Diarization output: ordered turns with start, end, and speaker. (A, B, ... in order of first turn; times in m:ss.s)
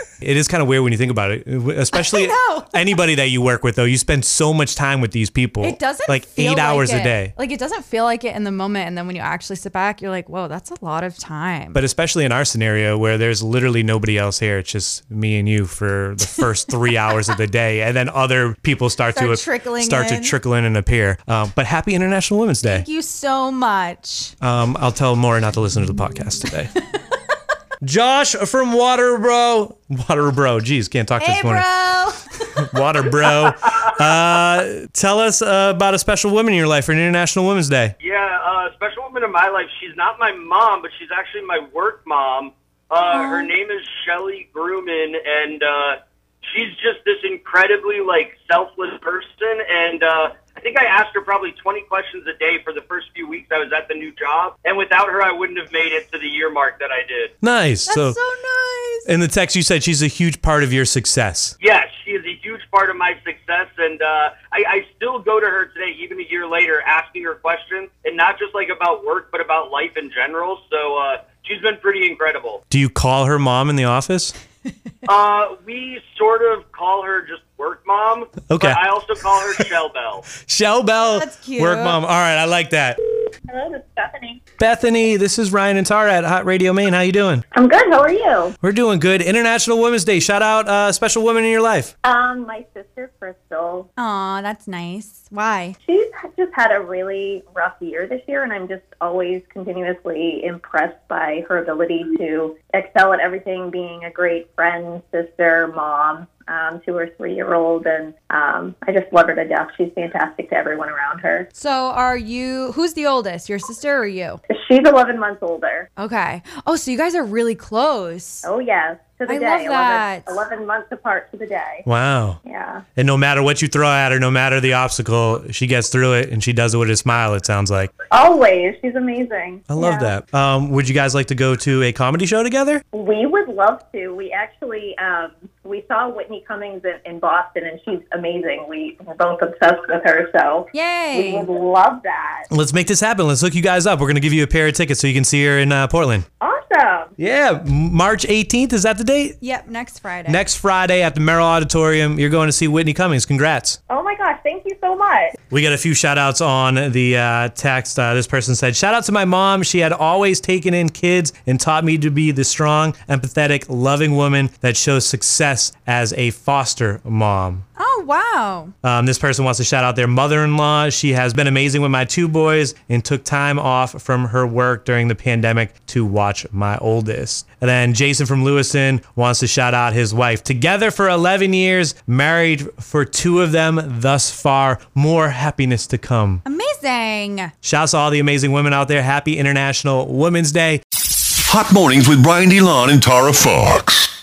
0:00.2-0:07.3 A
0:01.9-0:02.7 B
0:05.6-0:11.8 B
0:11.7-0:22.9 A
0:19.1-0:20.4 B
0:22.6-0:24.3 B
0:24.4-0:26.7 A
0:27.8-0:31.7 A
0:31.2-0:32.6 B
0:32.6-0:38.0 A
0:38.0-0:57.3 C
0:43.1-0:43.5 B
0:57.4-0:58.2 A
0:57.9-0:59.1 B
0:59.0-1:01.6 A
1:01.6-1:12.6 C
1:12.7-1:14.3 A
1:15.0-1:20.3 C
1:18.5-1:18.8 A
1:19.4-1:19.6 A
1:20.4-1:23.0 A
1:21.1-1:22.0 B
1:23.5-1:24.4 D
1:24.6-1:27.4 A
1:27.5-1:28.6 D
1:28.6-1:31.9 A
1:32.0-1:33.9 D
1:34.0-1:35.8 B
1:35.8-1:51.5 D
1:51.5-1:54.4 B
1:54.5-1:55.9 D
1:56.0-1:58.5 B
1:58.4-2:01.8 D
1:59.3-2:00.2 B
2:01.8-2:02.4 A
2:02.4-2:02.8 D
2:03.0-2:07.9 A
2:08.1-2:09.6 D
2:09.7-2:12.8 A
2:09.8-2:10.1 B
2:12.9-2:22.5 D
2:20.7-2:21.5 B
2:22.5-2:26.3 A
2:26.4-2:27.1 D
2:27.2-2:29.4 A
2:29.4-2:30.4 B
2:30.3-2:33.8 A
2:33.9-2:35.4 D
2:35.5-2:47.6 A
2:47.8-2:48.7 B
2:48.8-3:06.4 A
3:06.4-3:07.5 B
3:07.6-3:10.8 A
3:11.4-3:14.1 E